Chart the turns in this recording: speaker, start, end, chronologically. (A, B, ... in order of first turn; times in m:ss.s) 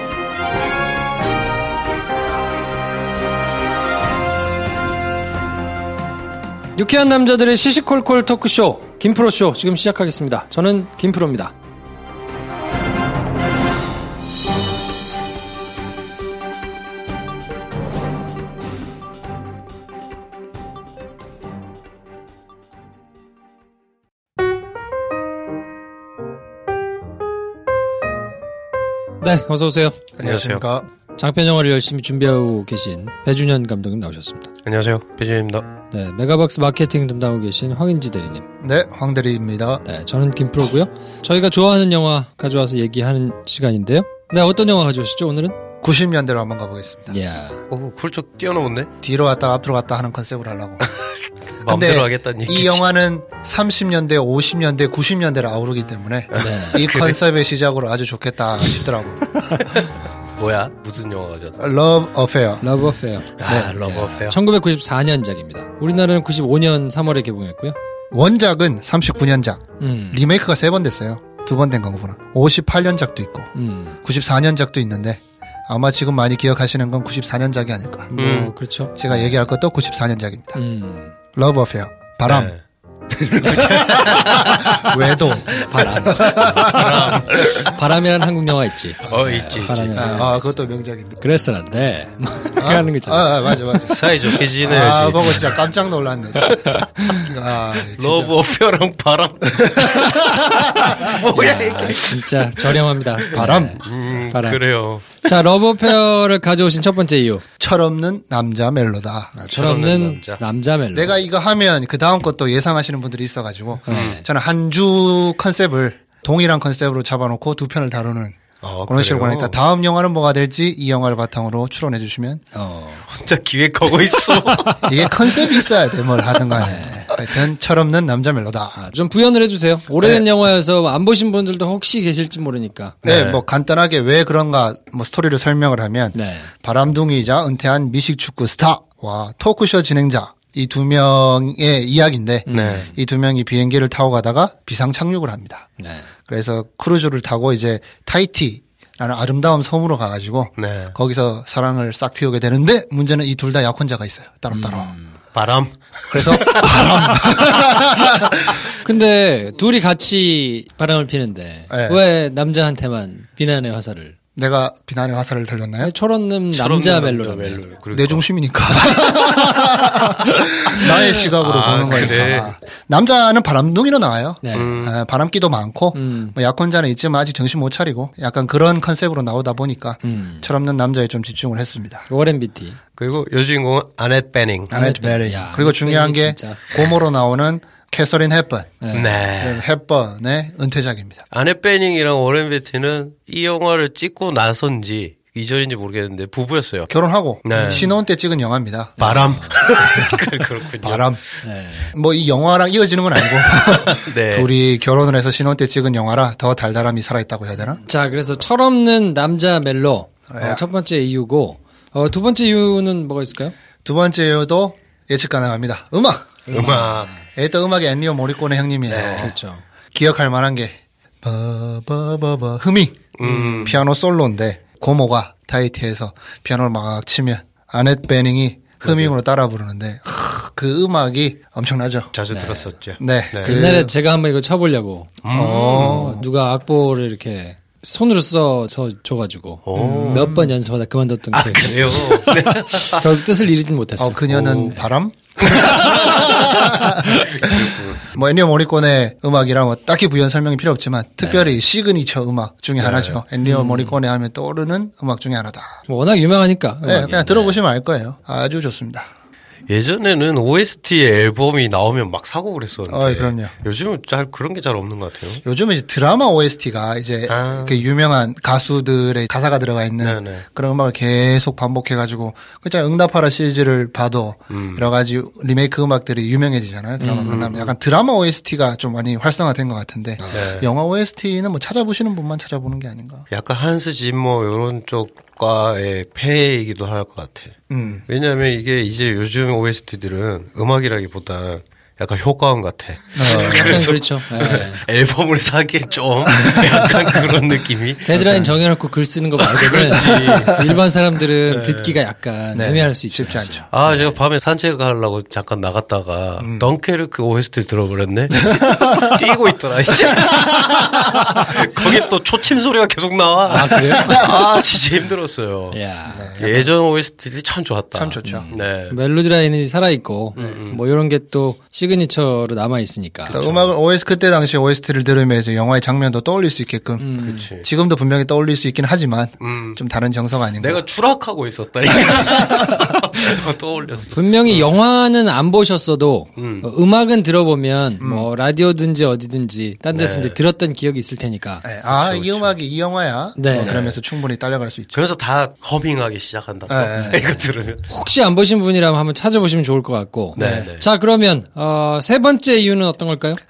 0:06.7-0:11.5 A
0:29.2-0:30.0 A
0:30.2-0:30.9 B
0:30.2-0:30.6 C
0:31.2-0:34.5 A
0:34.6-0:35.6 C
0:35.9-0:38.4 A
0:38.6-0:39.8 B
0:39.8-0:45.6 A
0:45.8-0:47.2 B
0:47.1-0:47.6 A
0:47.7-0:48.9 C
0:49.0-0:50.9 B
0:51.6-0:52.8 C
0:51.6-0:59.3 B
0:56.3-0:57.2 C
0:56.4-0:56.8 A
0:59.6-1:01.7 C
1:01.6-1:02.7 B
1:02.6-1:07.8 A
1:03.4-1:04.4 C
1:03.4-1:03.8 B
1:08.1-1:13.5 B
1:09.8-1:10.2 A
1:13.5-1:14.0 A
1:14.0-1:18.1 B
1:18.1-1:19.3 A
1:18.2-1:18.5 C
1:18.9-1:20.6 B
1:20.5-1:21.1 A
1:21.3-1:22.5 B
1:22.2-1:22.6 C
1:23.2-1:27.4 B
1:23.3-1:27.7 C
1:25.5-1:30.6 A
1:29.0-1:30.3 C
1:29.9-1:31.2 B
1:31.2-1:33.9 A
1:32.6-1:34.0 B
1:33.9-1:35.6 C
1:34.6-1:38.4 B
1:37.0-1:37.3 A
1:37.7-1:45.2 C
1:39.5-1:41.1 B
1:40.8-1:47.4 A
1:43.3-1:43.8 B
1:47.6-1:49.6 B
1:49.4-1:50.4 C
1:49.4-1:51.2 A
1:50.9-2:02.4 B
1:53.8-1:54.2 A
1:53.9-1:54.2 C
1:58.6-1:59.6 C
2:02.5-2:03.0 A
2:03.1-2:05.1 C
2:04.5-2:04.8 A
2:04.8-2:08.8 B
2:06.6-2:07.1 A
2:08.7-2:13.0 A
2:13.0-2:13.4 C
2:13.0-2:25.7 B
2:16.1-2:16.5 A
2:22.5-2:22.9 A
2:22.5-2:22.9 C
2:25.8-2:26.1 A
2:26.3-2:34.9 B
2:30.6-2:30.9 C
2:34.5-2:35.2 A
2:35.3-2:37.2 C
2:36.1-2:38.6 B
2:38.8-2:44.2 A
2:41.7-2:42.0 B
2:44.3-2:45.9 B
2:45.8-2:47.6 A
2:46.5-2:48.3 C
2:47.9-3:02.1 B
2:50.9-2:52.5 C
2:52.0-2:52.3 A
2:54.4-2:54.8 A
2:54.5-2:54.9 C
2:55.9-2:56.3 A
3:00.0-3:00.5 A
3:02.1-3:02.8 A
3:03.0-3:04.7 C
3:04.7-3:06.7 A
3:04.7-3:11.2 B
3:08.8-3:09.1 A
3:08.9-3:09.6 C
3:11.3-3:16.9 C
3:16.9-3:19.2 B
3:17.4-3:17.9 C
3:17.6-3:17.8 A
3:19.0-3:20.2 A
3:19.0-3:21.2 C
3:20.8-3:21.2 B
3:21.4-3:21.9 A
3:21.9-3:27.8 B
3:23.6-3:24.5 C
3:27.8-3:33.5 A
3:30.3-3:30.6 B
3:33.8-3:39.3 B
3:36.5-3:37.1 C
3:36.5-3:37.2 A
3:38.9-3:39.3 C
3:39.2-3:39.6 A
3:39.9-3:52.1 B
3:43.2-3:43.8 C
3:48.8-3:49.1 C
3:52.1-3:53.6 C
3:52.3-3:52.7 A
3:53.0-3:53.9 B
3:53.4-4:04.2 A
3:55.2-3:56.2 C
3:55.3-3:56.3 B
3:59.6-4:00.3 C
3:59.7-4:00.6 B
4:01.3-4:03.1 C
4:04.0-4:15.8 B
4:04.3-4:04.8 C
4:05.4-4:06.4 C
4:05.4-4:07.5 A
4:07.0-4:08.0 C
4:11.2-4:11.5 A
4:12.8-4:13.2 C
4:13.4-4:14.0 A
4:15.8-4:17.6 A
4:16.8-4:19.1 B
4:19.7-4:25.4 C
4:22.8-4:23.6 B
4:25.4-4:43.3 B
4:27.3-4:27.8 C
4:30.0-4:30.4 C
4:34.5-4:34.9 C
4:37.0-4:37.5 A
4:37.2-4:37.7 C
4:40.3-4:40.7 C
4:43.3-4:58.5 C
4:47.7-4:48.0 B
4:53.1-4:53.9 B
4:53.2-4:54.8 A
4:56.3-4:57.3 B
4:58.0-5:04.2 A
4:59.4-5:00.8 C
5:00.2-5:00.5 B
5:01.4-5:02.0 C
5:02.5-5:03.7 B
5:03.7-5:15.8 C
5:06.4-5:06.7 B
5:08.5-5:09.1 B
5:13.4-5:14.3 A
5:13.7-5:14.3 B
5:15.7-5:16.3 A
5:16.1-5:16.7 B
5:16.4-5:19.0 C
5:17.9-5:18.5 B
5:18.2-5:23.4 A
5:20.4-5:20.8 C
5:23.3-5:23.8 C
5:23.3-5:30.8 B
5:27.0-5:27.5 A
5:27.2-5:27.7 C
5:29.4-5:29.8 C
5:30.6-5:34.8 C
5:31.9-5:32.8 B
5:34.1-5:41.6 A
5:36.4-5:36.7 C
5:38.0-5:38.3 B
5:39.9-5:40.4 C
5:41.6-5:45.0 B
5:41.8-5:42.6 C
5:43.4-5:44.0 A
5:43.6-5:43.9 C
5:44.9-5:47.8 C
5:46.7-5:47.4 B
5:46.9-5:47.2 A
5:47.9-5:53.4 A
5:50.3-5:50.9 C
5:50.4-5:50.7 B